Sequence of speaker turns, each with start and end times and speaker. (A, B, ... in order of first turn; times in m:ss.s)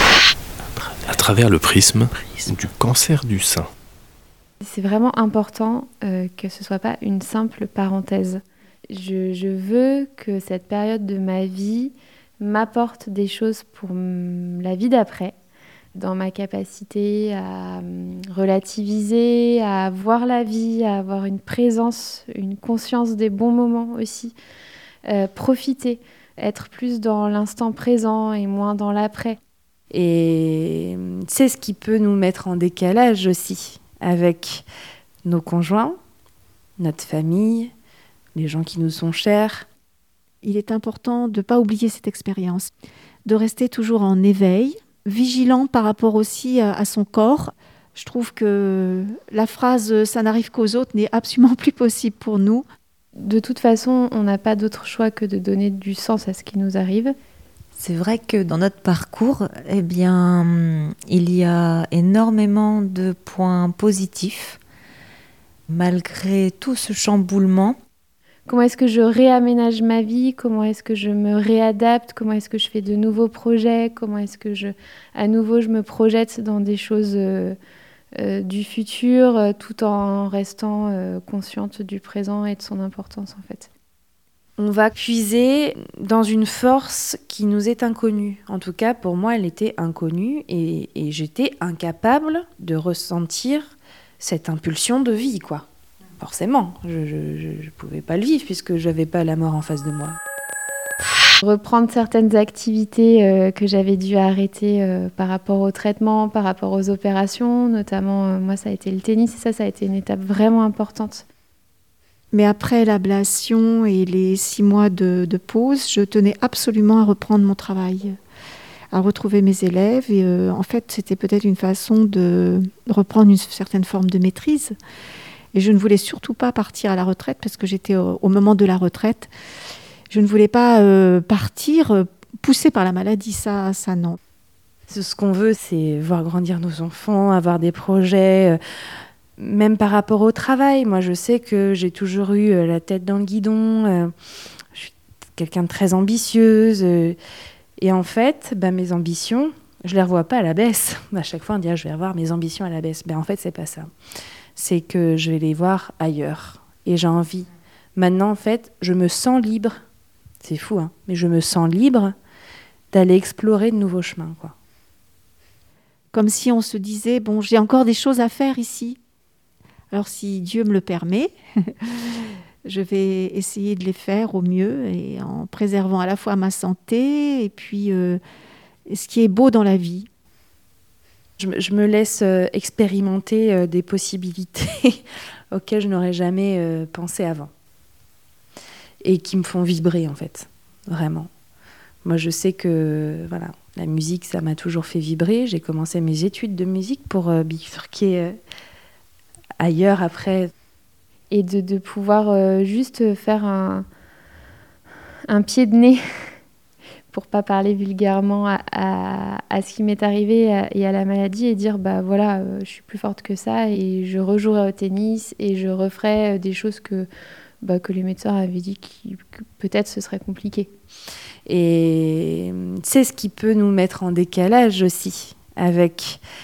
0:01.1-0:03.7 A
0:04.6-0:15.4 B
0:15.9-0:24.3 B
0:25.0-0:29.4 B
0:29.9-0:34.6 C
0:35.2-0:36.0 C
0:36.8-0:37.7 C
0:38.3-0:39.6 C
0:40.4-0:42.7 D
0:43.2-0:52.6 D
0:53.2-0:57.1 B
0:57.8-1:04.6 E
1:05.7-1:07.8 E
1:08.5-1:17.6 B
1:18.2-1:23.7 B
1:24.6-1:35.6 C
1:36.2-1:40.2 C
1:41.4-1:51.2 B
1:52.3-1:58.2 D
1:58.9-2:04.7 D
2:05.5-2:09.3 D
2:10.1-2:14.2 D
2:14.9-2:18.6 C
2:19.4-2:24.1 C
2:24.7-2:27.2 C
2:27.8-2:33.9 C
2:34.6-2:39.7 C
2:40.4-2:42.1 C
2:42.9-2:44.5 C
2:46.1-2:49.0 D
2:49.9-2:51.7 D
2:52.6-2:58.2 D
2:58.9-3:00.1 D
3:01.4-3:07.5 C
3:09.0-3:11.3 C
3:12.0-3:18.4 C
3:19.6-3:20.5 C
3:21.3-3:23.8 B
3:25.3-3:26.0 B
3:27.1-3:37.1 B
3:37.6-3:40.7 B
3:41.4-3:46.2 C